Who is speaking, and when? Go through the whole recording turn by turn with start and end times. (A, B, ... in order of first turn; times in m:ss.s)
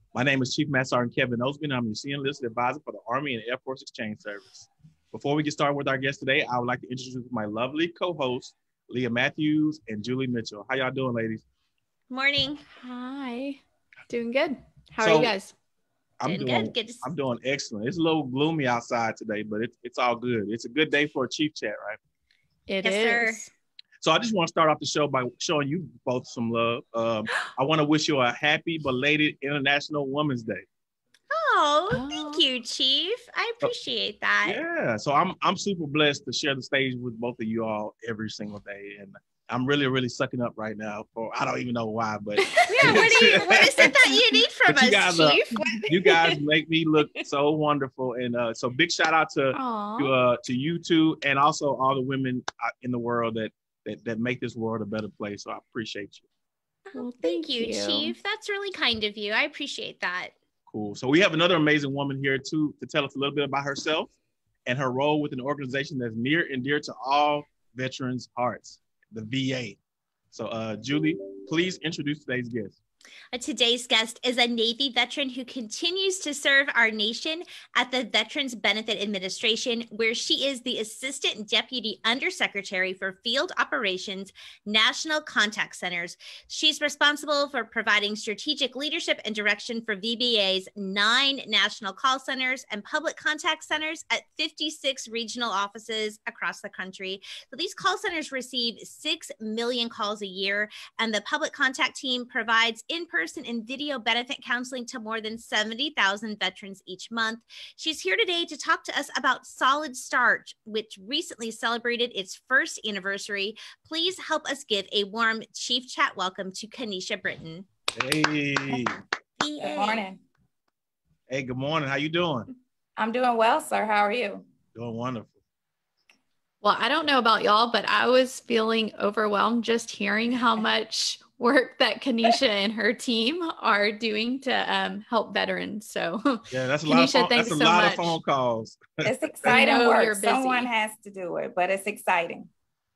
0:00.1-0:11.4 A
0:12.1-0:12.6 B
0:12.7-0:15.5 C
0:15.0-0:15.3 A
0:16.2-0:22.0 A
0:16.2-0:17.0 B
0:22.7-0:23.5 C
0:22.8-0:23.4 B
0:24.0-0:30.6 A
0:31.3-0:34.6 B
0:31.9-0:32.4 C
0:34.4-0:43.9 A
0:42.5-0:43.9 C
0:42.7-0:46.2 B
0:44.7-0:56.2 A
0:45.5-0:45.8 C
0:49.5-0:50.1 C
0:56.9-1:00.3 B
0:56.9-0:58.2 C
1:00.7-1:04.1 A
1:04.7-1:09.8 A
1:10.3-1:12.8 A
1:13.3-1:57.7 B
1:58.0-1:59.0 A
1:58.7-1:59.0 D
1:59.4-2:00.0 B
1:59.6-2:00.2 D
2:01.3-2:02.5 A
2:03.0-2:04.5 D
2:04.8-2:05.4 A
2:06.6-2:18.2 C
2:16.5-2:19.5 A
2:19.0-2:22.5 D
2:19.5-2:20.7 C